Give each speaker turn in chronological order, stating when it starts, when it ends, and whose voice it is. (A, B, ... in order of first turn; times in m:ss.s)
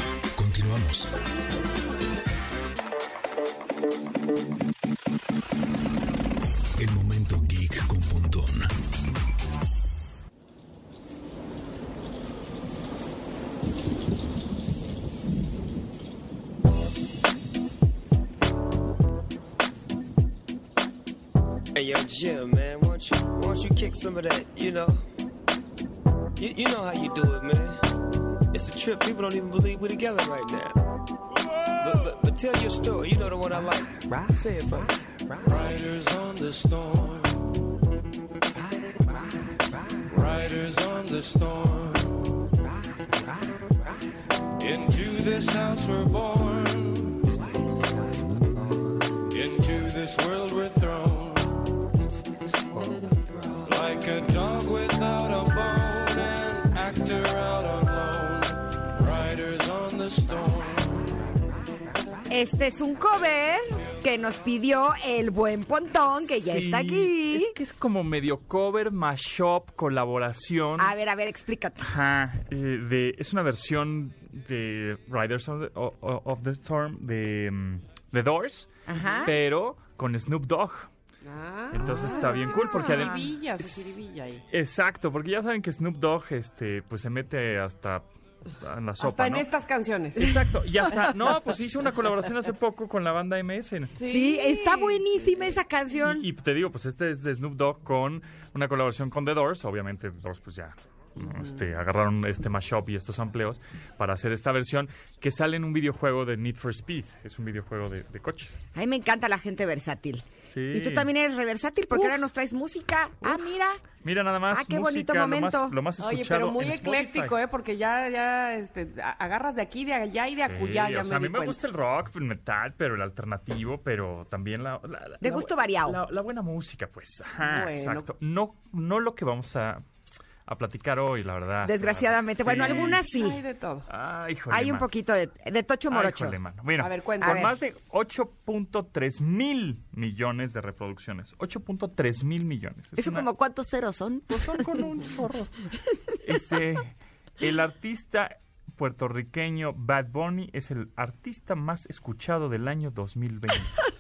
0:00.4-0:01.1 A
0:06.8-0:08.7 A
0:21.7-0:25.0 B
0:26.4-0:27.8 B
0:28.5-0:30.8 B
0:31.8-0:35.6 B
0:35.4-0:37.5 C
0:40.1-0:42.3 C
0:44.6-0:47.3 C
0:49.3-0:51.6 C
0:53.7-1:01.0 C
1:02.3-1:07.5 D
1:06.2-1:10.9 E
1:10.8-1:11.8 D
1:11.8-1:20.9 E
1:18.9-1:19.3 D
1:21.2-1:24.4 F
1:21.7-1:23.9 E
1:21.8-1:23.2 D
1:24.5-1:29.5 E
1:29.0-1:30.4 F
1:30.2-1:34.0 E
1:34.0-1:35.1 F
1:34.0-1:36.3 D
1:36.0-1:48.6 E
1:48.8-1:53.8 D
1:50.5-1:51.1 E
1:51.9-1:52.2 E
1:53.2-1:57.4 E
1:54.5-1:55.8 D
1:56.0-2:01.6 F
2:00.4-2:09.8 E
2:05.2-2:06.0 D
2:07.4-2:08.1 F
2:10.5-2:13.0 E
2:11.6-2:13.4 D
2:12.6-2:13.9 F
2:13.9-2:14.9 E
2:14.5-2:16.4 D
2:15.9-2:23.3 E
2:16.8-2:17.5 F
2:17.2-2:17.6 D
2:23.0-2:24.9 D
2:24.3-2:25.6 E
2:26.2-2:33.8 E